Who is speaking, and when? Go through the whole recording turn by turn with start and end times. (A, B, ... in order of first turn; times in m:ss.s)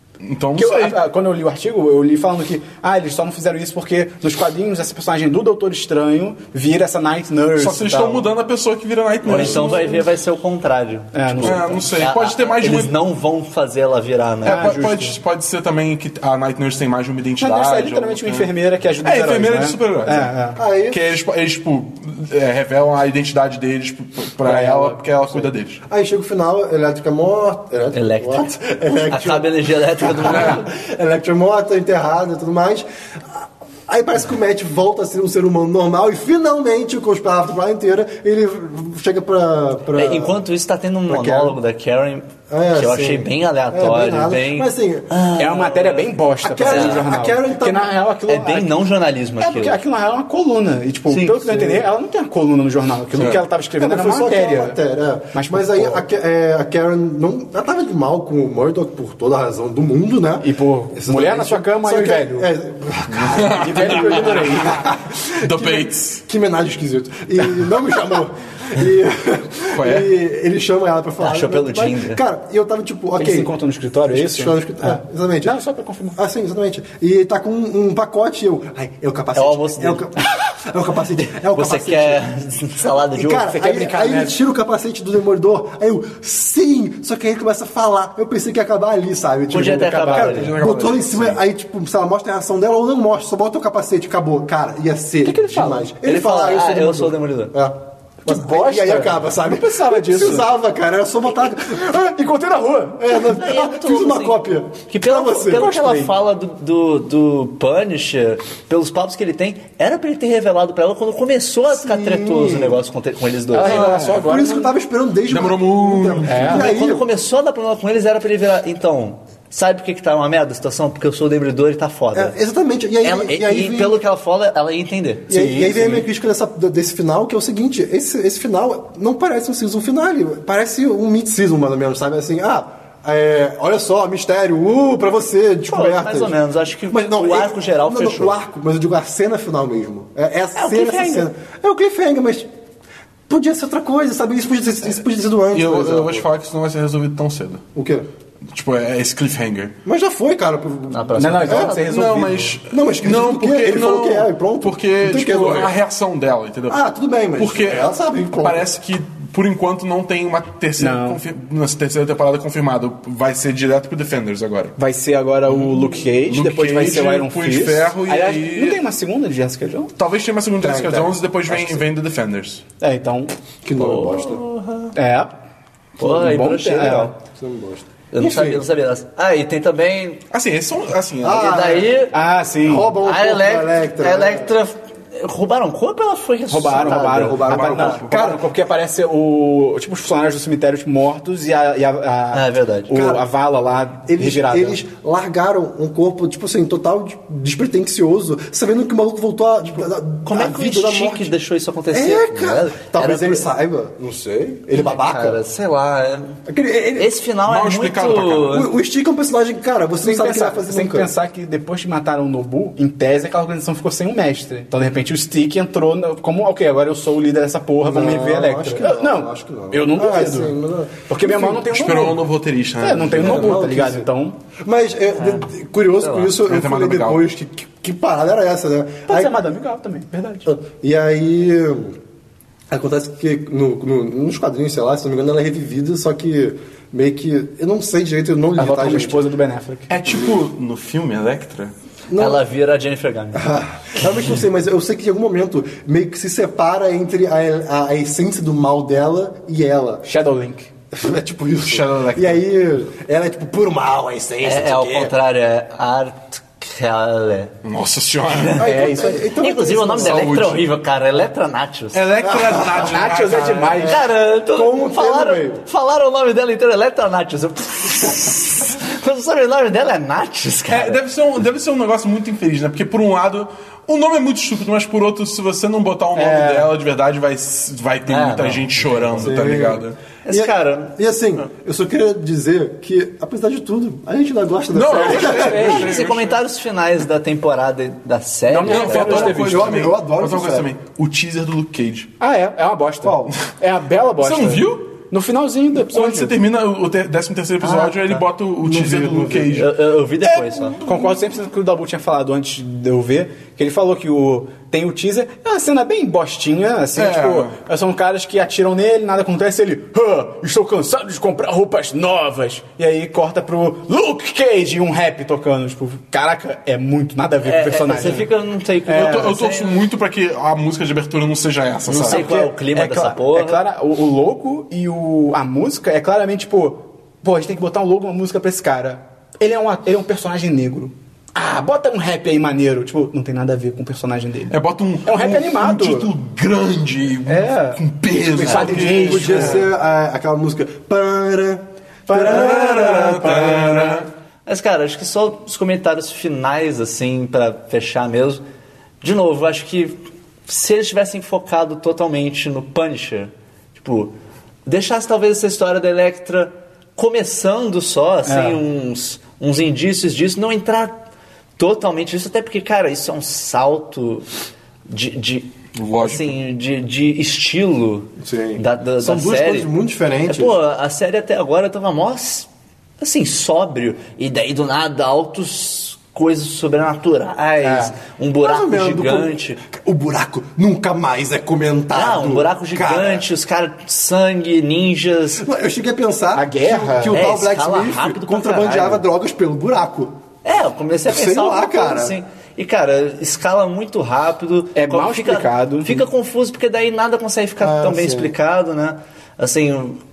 0:00.2-0:01.0 A
0:00.6-0:08.3 B
0:07.6-0:10.1 A
0:09.2-0:14.8 C
0:11.1-0:11.9 B
0:11.4-0:13.0 A
0:14.4-0:15.2 B
0:14.4-0:18.5 A
0:17.4-0:20.6 B
0:19.0-0:20.3 A
0:20.6-0:21.0 D
0:20.9-0:25.8 A
0:24.4-0:25.5 B
0:25.9-0:40.4 D
0:27.9-0:30.7 C
0:39.9-0:46.1 C
0:41.1-0:41.6 D
0:42.5-0:45.1 D
0:45.4-0:48.7 B
0:46.4-0:47.9 D
0:46.6-0:47.1 C
0:48.3-0:49.8 C
0:49.4-0:54.8 B
0:51.1-0:51.4 C
0:51.4-0:51.8 D
0:53.1-0:53.4 A
0:53.8-1:13.5 D
0:55.3-0:56.0 B
1:00.4-1:02.5 B
1:03.0-1:06.2 A
1:03.5-1:04.9 B
1:09.7-1:10.1 A
1:11.2-1:12.2 C
1:13.2-1:16.2 B
1:14.1-1:15.5 D
1:16.1-1:22.2 D
1:19.3-1:20.1 C
1:21.3-1:23.5 C
1:23.1-1:41.9 D
1:23.4-1:24.4 B
1:29.5-1:30.6 C
1:29.7-1:30.5 B
1:30.2-1:31.4 A
1:35.2-1:35.9 B
1:36.0-1:37.5 C
1:38.2-1:40.5 B
1:41.8-1:43.1 B
1:43.0-1:45.7 D
1:43.1-1:44.4 C
1:44.9-1:53.8 C
1:45.5-1:46.1 B
1:51.7-1:52.8 D
1:53.5-1:54.7 B
1:53.6-1:54.3 A
1:53.7-1:57.1 D
1:55.3-1:56.6 A
1:56.2-1:56.7 B
1:56.5-2:02.3 C
2:02.1-2:04.0 D
2:03.0-2:05.3 C
2:05.3-2:16.4 D
2:05.3-2:06.1 B
2:15.7-2:18.4 C
2:16.9-2:22.5 D
2:20.6-2:21.3 C
2:23.3-2:26.2 D
2:25.5-2:27.6 A
2:27.7-2:28.0 D
2:28.5-2:29.8 A
2:29.8-2:31.8 D
2:30.9-2:31.9 C
2:31.2-2:32.6 B
2:31.8-2:36.8 A
2:32.7-2:35.7 D
2:36.7-2:38.7 D
2:37.4-2:44.7 A
2:40.8-2:41.2 B
2:44.8-2:49.9 B
2:45.4-2:48.8 A
2:50.0-2:52.6 A
2:50.6-2:51.8 D
2:52.8-2:53.3 B
2:53.6-2:54.4 D
2:53.8-2:54.9 C
2:54.9-2:55.3 B
2:56.0-2:57.1 B
2:56.0-2:57.1 C
2:57.2-2:58.6 D
2:58.1-3:00.2 C
3:00.3-3:01.6 A
3:01.2-3:02.0 D
3:01.3-3:02.1 C
3:02.1-3:03.0 B
3:02.6-3:04.5 D
3:03.0-3:07.8 C
3:06.5-3:14.8 B
3:06.6-3:08.4 D
3:07.4-3:08.1 A
3:12.3-3:13.0 C
3:12.9-3:13.2 D
3:14.0-3:21.3 D
3:20.2-3:23.4 C
3:21.9-3:25.4 D
3:24.7-3:26.4 C
3:26.4-3:27.2 D
3:27.0-3:28.7 C
3:27.4-3:28.6 A
3:28.5-3:31.1 D
3:30.0-3:40.6 B
3:37.8-3:41.8 D
3:41.1-3:42.2 B
3:41.7-3:43.7 A
3:42.8-3:44.4 B
3:43.2-3:49.4 D
3:45.2-3:45.4 C
3:46.0-3:46.4 C
3:46.4-3:47.2 A
3:49.1-3:50.5 B
3:50.4-3:52.0 D
3:52.7-3:59.2 D
3:58.6-3:59.9 B
3:59.9-4:01.7 A
4:02.1-4:02.4 D
4:02.2-4:03.6 C
4:03.3-4:10.0 D
4:10.0-4:10.7 B
4:10.9-4:15.1 D
4:11.6-4:12.4 A
4:14.4-4:17.5 C
4:17.6-4:18.7 A
4:18.3-4:18.7 C
4:18.6-4:20.4 D
4:18.6-4:19.4 B
4:19.4-4:22.1 C
4:20.0-4:20.6 A
4:21.9-4:23.9 A
4:22.2-4:25.6 D
4:22.7-4:24.0 B
4:23.8-4:31.0 C
4:30.7-4:40.0 A
4:36.1-4:36.7 B
4:38.0-4:39.1 C
4:39.2-4:45.9 D
4:40.2-4:40.9 C
4:44.7-4:46.4 A
4:44.9-4:46.0 B
4:45.4-4:49.4 C
4:48.5-4:49.9 B
4:48.6-4:52.1 A
4:49.0-4:50.7 D
4:52.2-4:56.3 B
4:53.0-4:53.3 D
4:54.2-4:54.9 A
4:55.7-4:59.7 A
4:57.7-4:59.6 D
4:59.5-5:00.8 C
5:00.2-5:01.1 A
5:00.8-5:18.3 B
5:07.0-5:07.5 A
5:17.4-5:19.8 C
5:18.0-5:18.2 A
5:18.9-5:19.3 B
5:18.9-5:22.3 A
5:21.9-5:23.6 C
5:22.0-5:36.1 B
5:34.5-5:39.6 A
5:37.2-5:37.8 B
5:38.2-5:43.1 D
5:38.3-5:39.6 B
5:42.1-5:44.0 B
5:42.1-5:44.1 A
5:44.4-5:48.4 C
5:49.0-5:54.1 C
5:54.6-6:01.0 C
5:58.2-5:58.6 B
6:01.6-6:04.2 C
6:04.9-6:09.7 C
6:05.7-6:06.3 A
6:08.2-6:10.5 D
6:10.3-6:12.5 C
6:13.0-6:19.6 C
6:17.6-6:17.9 B
6:18.4-6:23.2 D
6:21.9-6:25.4 C
6:25.4-6:30.1 D
6:26.3-6:27.2 B
6:27.1-6:29.0 C
6:30.4-6:40.0 C
6:31.1-6:32.2 D
6:34.7-6:36.0 B
6:37.6-6:38.3 D